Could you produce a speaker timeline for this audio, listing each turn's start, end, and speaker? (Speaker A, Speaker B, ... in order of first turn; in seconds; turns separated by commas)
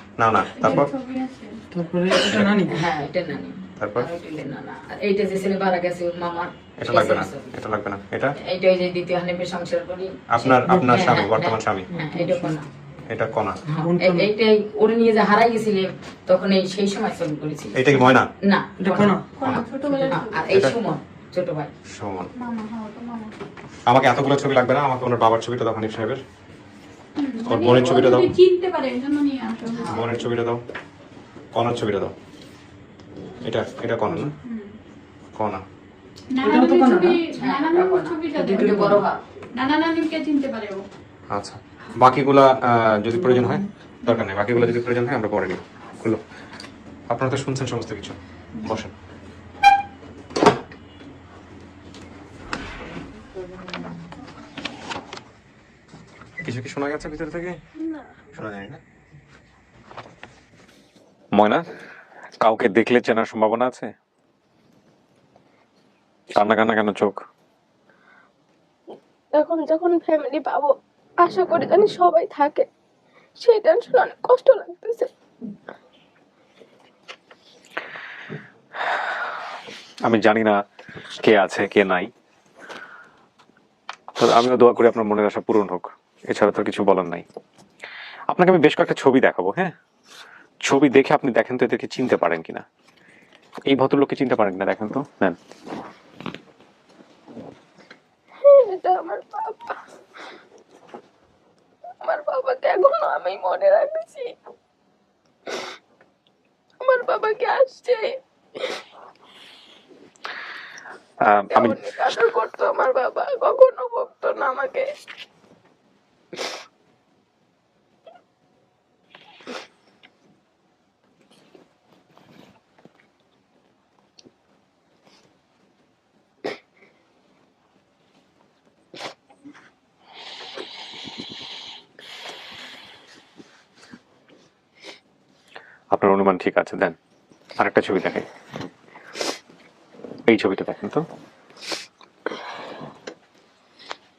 Speaker A: 0.2-0.9, Speaker B: 0.5-1.6, Speaker C: 1.7-2.8, Speaker A: 2.2-2.5, Speaker D: 2.7-7.5, Speaker A: 3.8-4.1, Speaker A: 6.8-8.4, Speaker D: 8.4-12.7, Speaker A: 10.3-11.9, Speaker C: 10.7-11.0, Speaker C: 12.3-12.5, Speaker A: 13.1-13.6, Speaker D: 13.7-17.9, Speaker C: 13.8-14.3, Speaker A: 17.8-18.3, Speaker D: 18.4-19.1, Speaker C: 18.8-20.2, Speaker B: 19.3-20.6, Speaker D: 20.1-21.7, Speaker A: 20.5-20.8, Speaker A: 21.9-22.3, Speaker B: 22.4-23.3, Speaker A: 23.9-26.2, Speaker B: 27.2-30.0, Speaker A: 27.4-28.3, Speaker D: 29.7-30.1, Speaker A: 29.9-30.6, Speaker A: 31.5-32.1, Speaker A: 33.4-34.3, Speaker B: 34.4-34.7, Speaker A: 35.3-35.6, Speaker B: 36.3-39.0, Speaker C: 36.4-37.2, Speaker D: 37.4-39.2, Speaker C: 38.4-39.0, Speaker B: 39.5-40.8, Speaker A: 41.3-46.2, Speaker A: 47.1-48.9, Speaker A: 56.4-57.6, Speaker A: 58.3-58.8, Speaker A: 61.3-61.6, Speaker A: 62.4-63.9, Speaker A: 66.3-67.2, Speaker E: 69.3-72.7, Speaker E: 73.4-75.1, Speaker A: 80.0-80.5, Speaker A: 81.2-82.1, Speaker A: 84.2-87.2, Speaker A: 88.3-89.7, Speaker A: 90.6-92.6, Speaker A: 93.7-95.4, Speaker E: 98.4-99.8, Speaker E: 102.0-104.3, Speaker E: 106.8-108.1, Speaker A: 111.2-111.8, Speaker E: 111.4-114.9, Speaker A: 135.9-136.9, Speaker A: 137.6-138.2, Speaker A: 140.3-141.0